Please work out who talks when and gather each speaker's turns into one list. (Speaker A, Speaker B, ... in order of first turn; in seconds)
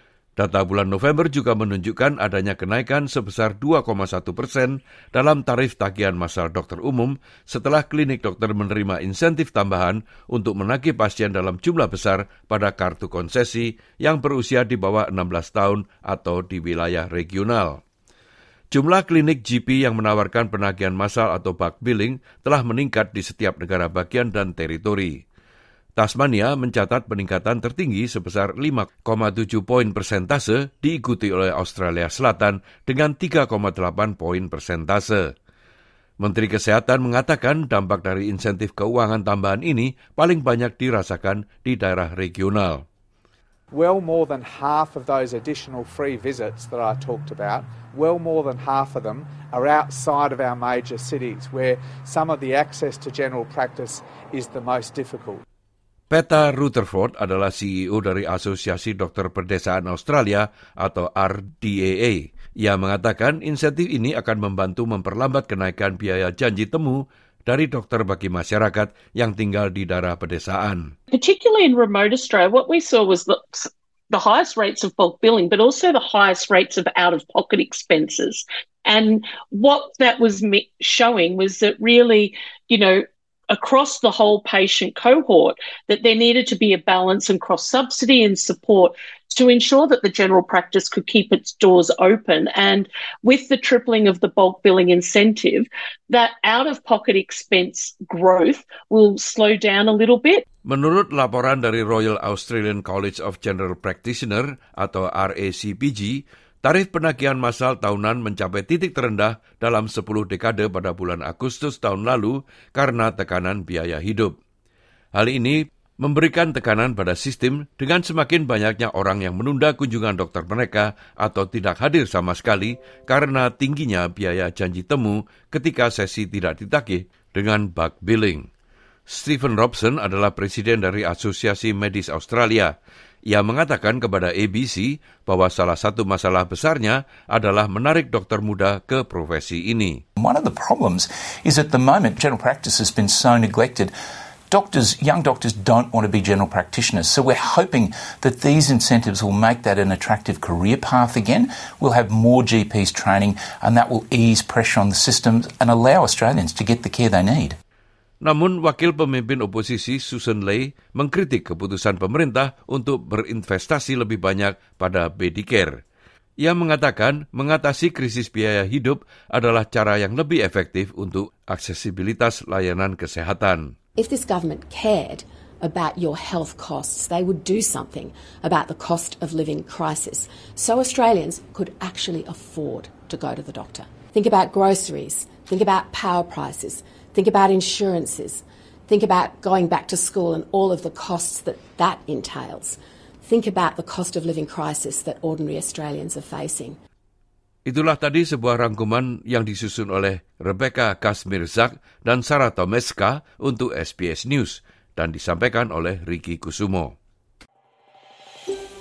Speaker A: 0.4-17.8, 18.7-25.1, 26.0-35.2, 36.2-42.8, 56.1-70.9, 100.6-114.3, 115.1-128.4, 129.1-132.7, 133.3-140.0, 158.2-165.7, 166.4-173.7, 197.7-206.9
Speaker B: 43.7-55.4
Speaker C: 71.1-100.4
Speaker D: 140.2-143.9, 144.5-157.6
Speaker E: 174.0-196.8